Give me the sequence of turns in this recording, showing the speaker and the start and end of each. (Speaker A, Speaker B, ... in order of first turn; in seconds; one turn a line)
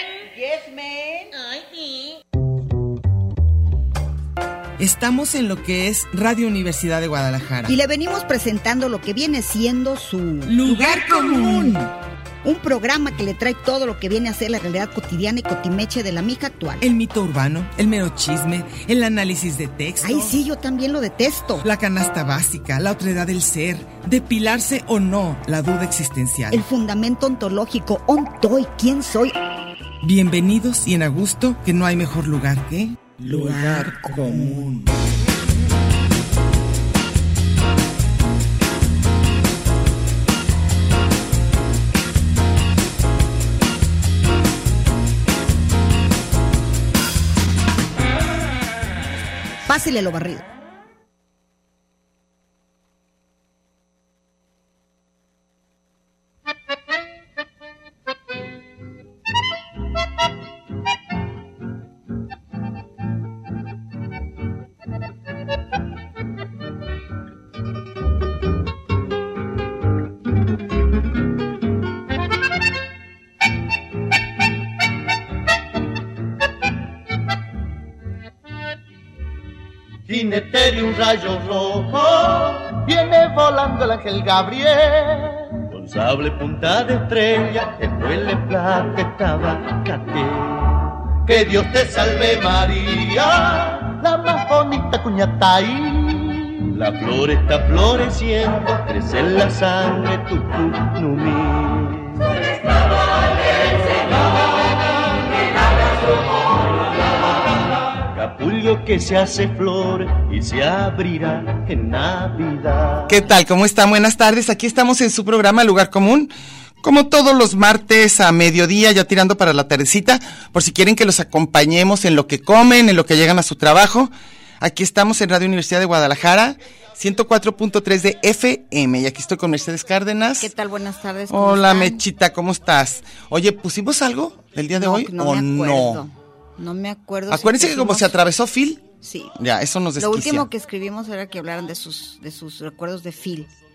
Speaker A: 0.5-1.3
Speaker B: 4.8-7.8
Speaker A: 7.7-11.9
Speaker B: 10.4-11.9
Speaker A: 12.4-16.9
Speaker B: 16.8-20.4
Speaker A: 20.0-21.7
Speaker B: 21.6-26.7
Speaker A: 26.5-29.4
Speaker B: 30.0-34.9
Speaker A: 33.3-34.7
Speaker A: 49.7-50.4
Speaker C: 80.1-102.4
Speaker C: 108.1-113.2
Speaker B: 113.1-116.3
Speaker B: 116.8-130.5
Speaker A: 130.4-132.0
Speaker B: 131.3-136.0
Speaker A: 134.7-138.1
Speaker B: 137.3-138.8
Speaker A: 139.0-139.3
Speaker B: 139.4-140.5
Speaker A: 140.0-143.5